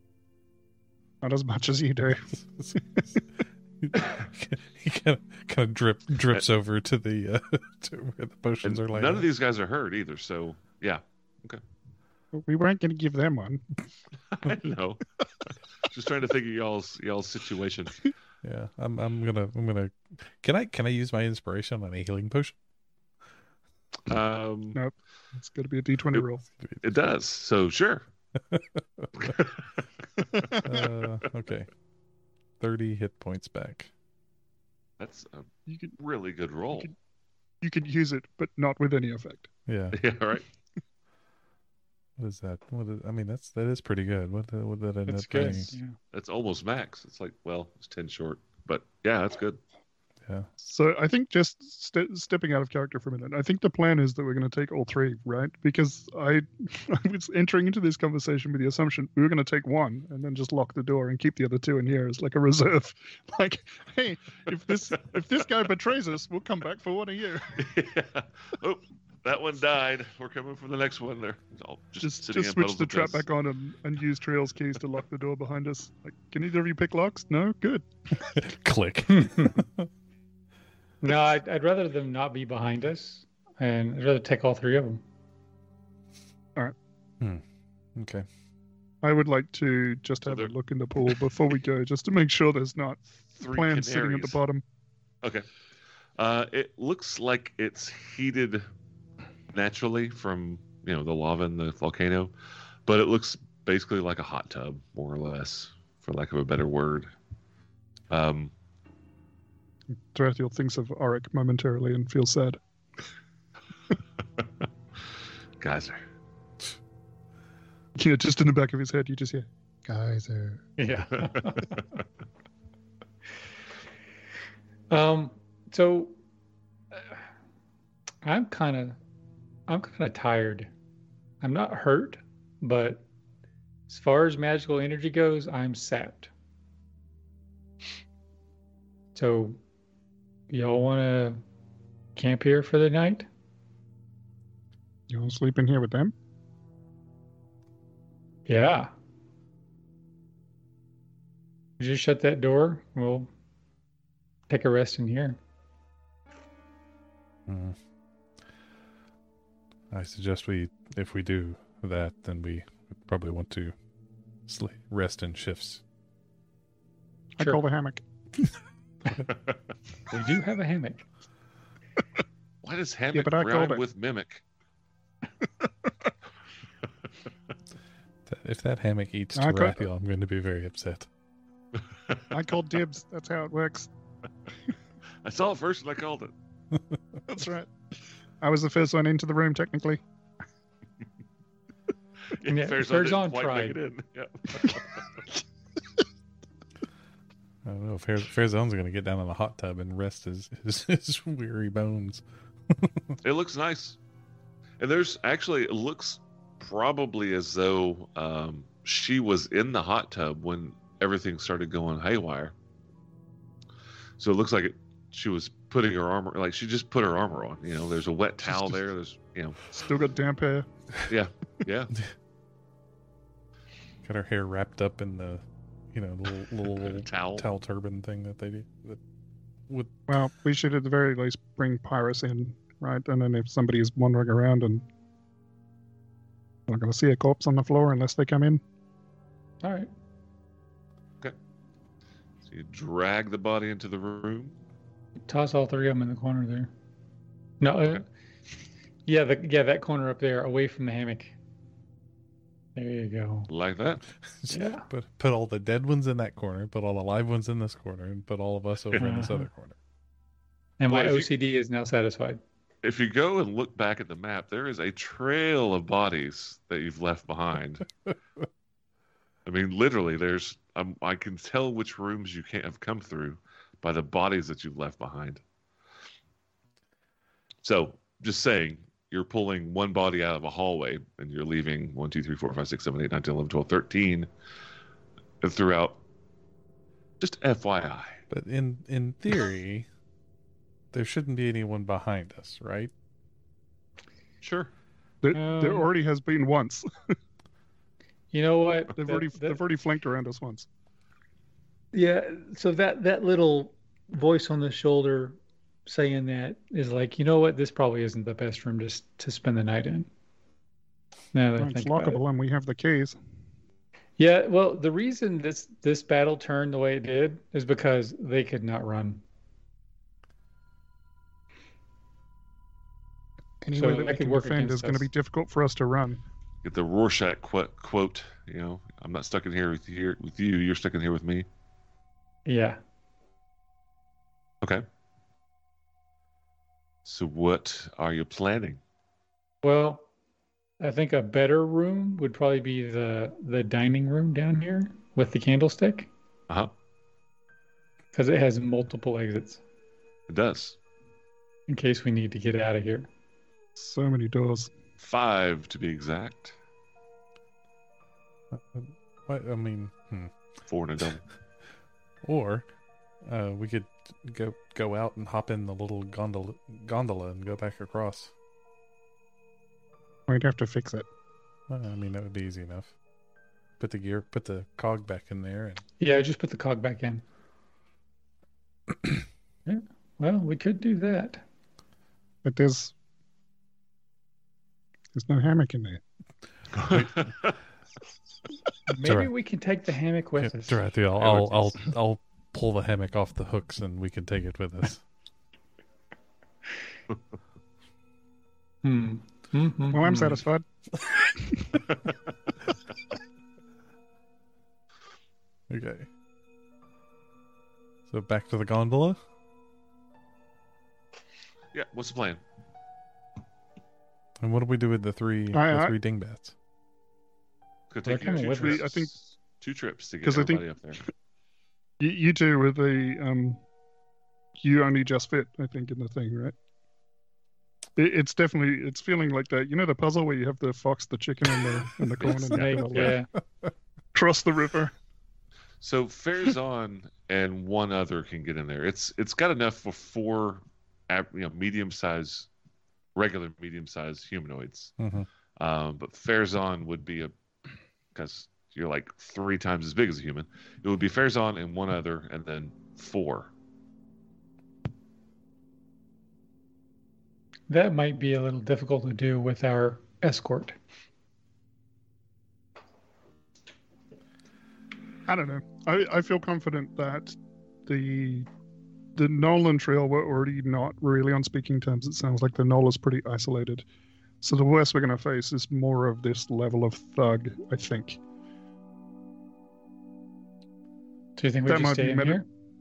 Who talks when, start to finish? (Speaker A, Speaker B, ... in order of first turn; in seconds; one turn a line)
Speaker A: 1.2-3.0
Speaker B: 3.8-9.3
Speaker C: 8.6-11.6
Speaker A: 12.3-13.6
Speaker C: 14.3-18.1
Speaker B: 18.4-22.6
Speaker C: 24.1-24.8
Speaker A: 24.8-26.4
Speaker C: 26.8-28.1
Speaker B: 28.5-29.3
Speaker C: 29.2-29.7
Speaker B: 30.6-31.7
Speaker B: 32.6-33.9
Speaker C: 35.0-36.9
Speaker A: 35.7-36.0
Speaker A: 37.6-39.5
Speaker B: 39.7-40.0
Speaker C: 39.9-40.5
Speaker B: 42.2-45.8
Speaker D: 45.1-46.0
Speaker C: 46.1-49.6
Speaker A: 50.6-67.7
Speaker C: 67.5-73.3
Speaker A: 72.0-77.9
Speaker B: 78.2-79.9
Speaker D: 81.0-85.0
Speaker B: 88.0-88.3
Speaker A: 89.0-94.6
Speaker C: 90.3-90.5
Speaker C: 93.3-94.4
Speaker C: 95.2-95.5
Speaker C: 96.2-98.7
Speaker C: 99.5-102.3
Speaker C: 102.9-107.1
Speaker C: 108.1-108.5
Speaker A: 110.1-112.6
Speaker C: 115.6-116.0
Speaker A: 118.0-120.7
Speaker D: 120.8-121.8
Speaker D: 124.9-126.2
Speaker D: 128.2-129.0
Speaker D: 129.7-130.7
Speaker D: 131.4-133.0
Speaker D: 133.9-136.3
Speaker D: 139.2-139.6
Speaker D: 140.5-141.4
Speaker D: 142.2-143.3
Speaker A: 145.1-146.1
Speaker D: 148.5-148.9
Speaker D: 151.8-153.3
Speaker D: 154.5-155.4
Speaker B: 157.5-157.8
Speaker B: 159.9-163.7
Speaker B: 164.5-165.8
Speaker A: 167.4-168.0
Speaker C: 169.3-169.6
Speaker D: 170.1-171.1
Speaker C: 172.6-174.4
Speaker A: 173.1-173.8
Speaker B: 178.3-181.1
Speaker A: 179.4-179.8
Speaker A: 182.3-183.9
Speaker C: 185.2-186.3
Speaker A: 187.3-187.7
Speaker A: 188.4-190.0
Speaker C: 192.3-195.1
Speaker D: 192.5-193.8
Speaker B: 197.7-203.2
Speaker C: 203.2-204.0
Speaker C: 204.8-212.5
Speaker C: 214.2-219.7
Speaker A: 219.7-220.7
Speaker C: 221.1-221.9
Speaker B: 224.0-229.0
Speaker C: 226.8-227.5
Speaker A: 230.1-234.8
Speaker A: 236.7-238.6
Speaker D: 239.6-239.9
Speaker C: 242.5-244.6
Speaker D: 245.3-246.7
Speaker D: 247.6-248.1
Speaker D: 249.1-251.3
Speaker D: 252.8-253.5
Speaker C: 253.5-254.0
Speaker B: 254.3-259.8
Speaker D: 254.5-254.8
Speaker D: 259.0-259.5
Speaker D: 260.8-262.4
Speaker C: 260.9-261.3
Speaker C: 262.8-267.9
Speaker C: 269.4-275.4
Speaker C: 277.6-284.3
Speaker C: 285.4-286.0
Speaker C: 287.2-288.2
Speaker B: 288.3-289.9
Speaker B: 290.9-292.9
Speaker C: 294.4-294.7
Speaker A: 295.2-297.1
Speaker D: 295.3-295.9
Speaker D: 298.3-299.6
Speaker A: 299.0-300.7
Speaker D: 301.9-310.1
Speaker D: 311.3-312.2
Speaker A: 311.6-313.2
Speaker D: 314.2-319.2
Speaker A: 323.6-326.2
Speaker D: 323.8-325.1
Speaker C: 326.6-331.5
Speaker D: 332.5-332.8
Speaker C: 337.1-338.8
Speaker D: 339.6-340.1
Speaker D: 340.8-346.1
Speaker D: 348.1-349.6
Speaker C: 350.3-350.8
Speaker D: 351.7-353.1
Speaker A: 353.8-354.7
Speaker C: 355.0-356.6
Speaker B: 358.5-360.3
Speaker C: 360.7-361.2
Speaker B: 362.2-362.7
Speaker B: 363.2-368.3
Speaker A: 370.3-371.1
Speaker B: 371.7-372.9
Speaker B: 373.8-375.8
Speaker D: 376.0-377.2
Speaker D: 379.7-381.4
Speaker A: 382.4-382.9
Speaker A: 385.1-386.0
Speaker C: 386.7-387.6
Speaker B: 386.9-387.1
Speaker D: 388.9-390.8
Speaker B: 389.0-389.3
Speaker B: 390.4-395.0
Speaker C: 391.2-391.8
Speaker D: 398.8-400.4
Speaker A: 399.9-401.7
Speaker B: 405.7-406.1
Speaker B: 408.1-409.2
Speaker C: 411.7-412.4
Speaker B: 414.4-416.5
Speaker A: 415.5-415.9
Speaker C: 417.9-421.0
Speaker D: 418.1-418.8
Speaker A: 418.4-419.1
Speaker A: 420.2-420.6
Speaker A: 422.0-423.6
Speaker A: 424.6-426.6
Speaker A: 428.0-433.2
Speaker C: 432.2-433.1
Speaker D: 432.4-433.3
Speaker A: 434.1-434.9
Speaker C: 435.8-442.5
Speaker C: 443.2-444.9
Speaker B: 445.0-445.3
Speaker C: 445.6-447.3
Speaker C: 448.1-453.5
Speaker D: 457.7-460.8
Speaker A: 465.3-468.5
Speaker A: 469.2-473.9
Speaker A: 474.4-478.2
Speaker D: 481.4-482.4
Speaker A: 481.7-482.4